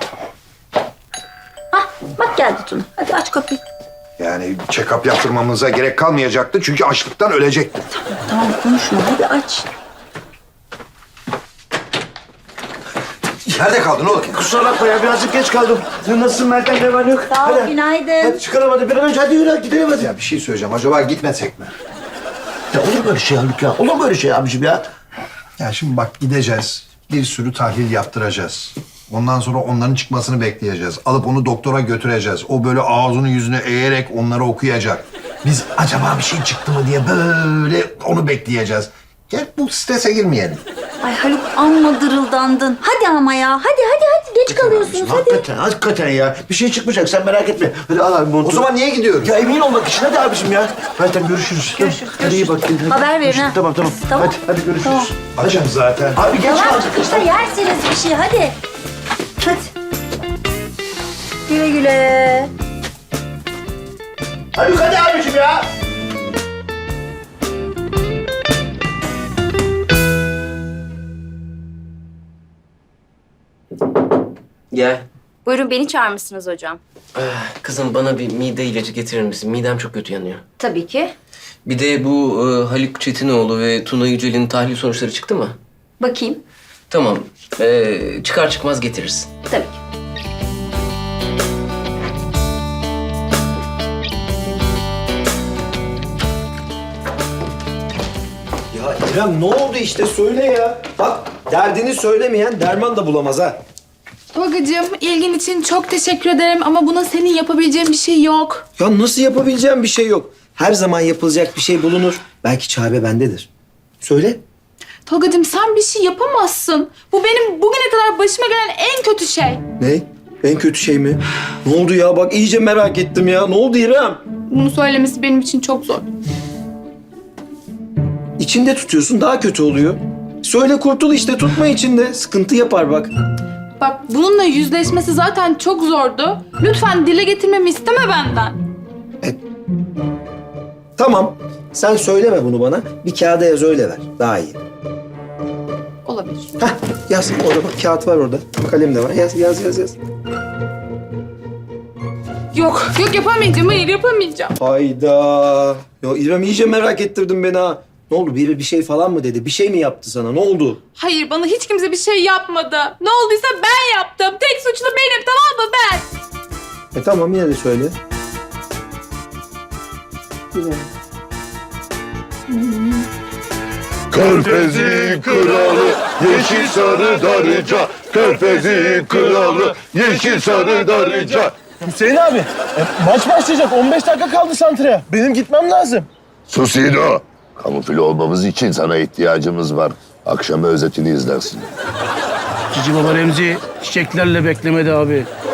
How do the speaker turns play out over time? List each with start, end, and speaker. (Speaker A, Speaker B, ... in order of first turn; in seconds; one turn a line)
Speaker A: 1.7-3.6
Speaker B: 4.2-7.8
Speaker A: 8.2-9.6
Speaker B: 13.5-14.4
Speaker C: 14.2-20.1
Speaker A: 17.3-18.4
Speaker B: 20.0-21.7
Speaker C: 22.7-24.9
Speaker B: 25.6-40.6
Speaker A: 41.0-45.4
Speaker C: 44.5-55.1
Speaker B: 48.4-49.4
Speaker A: 51.8-55.1
Speaker B: 55.3-56.4
Speaker C: 56.1-57.4
Speaker A: 56.4-58.5
Speaker A: 59.4-59.7
Speaker A: 61.5-62.5
Speaker C: 64.5-65.7
Speaker D: 74.7-75.0
Speaker E: 75.5-76.8
Speaker D: 77.1-80.4
Speaker E: 80.6-81.1
Speaker D: 81.6-85.5
Speaker E: 86.0-86.4
Speaker D: 86.9-89.5
Speaker F: 98.7-103.6
Speaker G: 104.3-108.6
Speaker F: 108.8-113.5
Speaker F: 114.0-114.4
Speaker G: 115.1-119.6
Speaker F: 119.8-124.2
Speaker G: 124.5-126.1
Speaker F: 128.4-133.1
Speaker G: 133.8-138.6
Speaker F: 141.0-144.6
Speaker G: 146.1-146.5
Speaker F: 146.6-149.9
Speaker G: 152.5-154.5
Speaker F: 154.6-160.8
Speaker G: 161.0-166.1
Speaker F: 166.9-167.9
Speaker F: 170.5-170.9
Speaker H: 174.1-181.5
Speaker F: 183.1-183.7
Speaker F: 184.5-185.8
Speaker H: 186.5-191.7
Speaker I: 192.7-195.3